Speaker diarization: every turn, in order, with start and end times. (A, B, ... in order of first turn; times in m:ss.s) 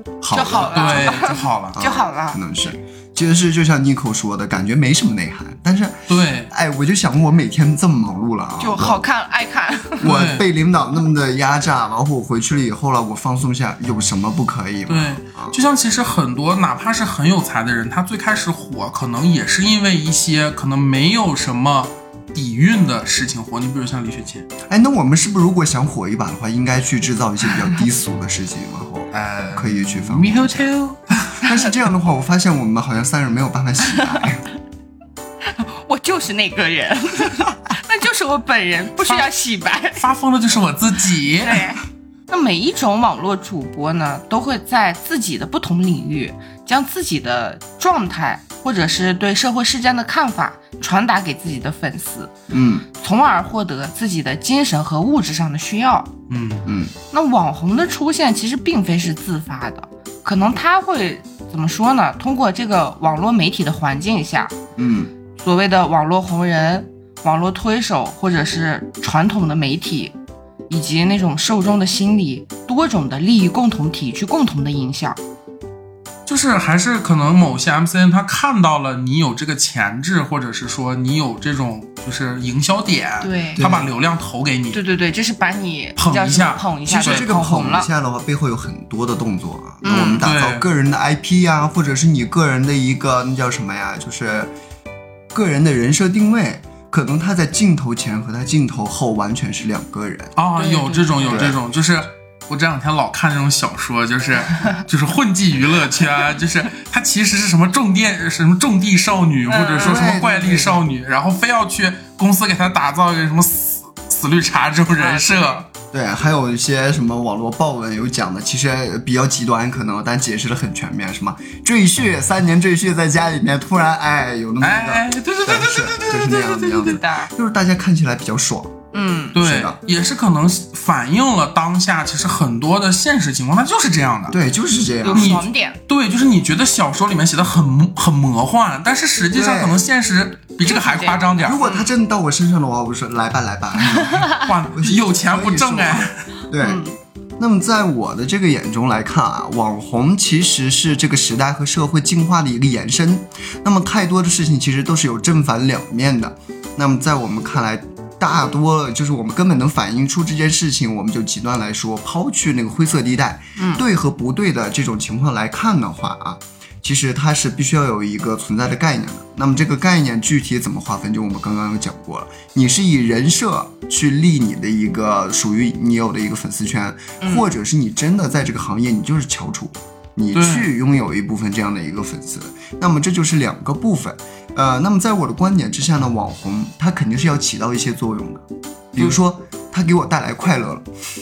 0:00.2-0:01.2 A
0:00.3-0:02.4 B
0:00.5-0:01.8 C
0:01.7-0:09.0 A
0:06.1-0:06.5 C
0:08.6-0:10.1 B
0:10.0-0:15.6 A
0:10.0-0:10.4 C
0:14.9-0:24.5 C
0:24.7-0:30.7 A
0:29.1-0:31.7 C
0:31.4-0:34.4 A
0:35.4-0:40.0 B
0:39.0-0:41.7 C
0:41.4-0:52.3 B
0:52.5-0:52.9 A
0:53.0-0:56.1 B
0:56.3-0:56.7 C
0:56.6-0:56.9 A
0:57.1-1:04.5 B
1:04.8-1:05.1 A
1:05.4-1:10.2 B
1:10.7-1:15.2 B
1:16.3-1:24.8 C
1:23.2-1:23.7 B
1:23.6-1:23.9 A
1:24.7-1:27.9 B
1:26.0-1:27.2 C
1:26.9-1:34.5 A
1:29.8-1:30.2 B
1:30.2-1:30.7 C
1:35.3-1:40.4 A
1:40.4-1:55.6 C
1:40.6-1:41.5 B
1:41.3-1:41.6 A
1:49.5-1:50.1 B
1:49.8-1:50.8 A
1:55.0-1:55.6 B
1:55.9-2:08.8 A
2:04.6-2:06.9 C
2:06.5-2:07.3 B
2:08.9-2:09.4 B
2:09.3-2:14.4 C
2:09.4-2:09.8 A
2:14.3-2:15.4 A
2:15.0-2:15.8 B
2:15.1-2:21.6 C
2:19.3-2:19.8 A
2:20.6-2:21.9 B
2:21.4-2:26.8 A
2:23.9-2:24.5 B
2:24.3-2:26.2 C
2:26.6-2:27.0 B
2:27.4-3:10.9 A
2:43.6-2:43.8 B
2:57.2-2:57.5 B
3:00.3-3:00.7 C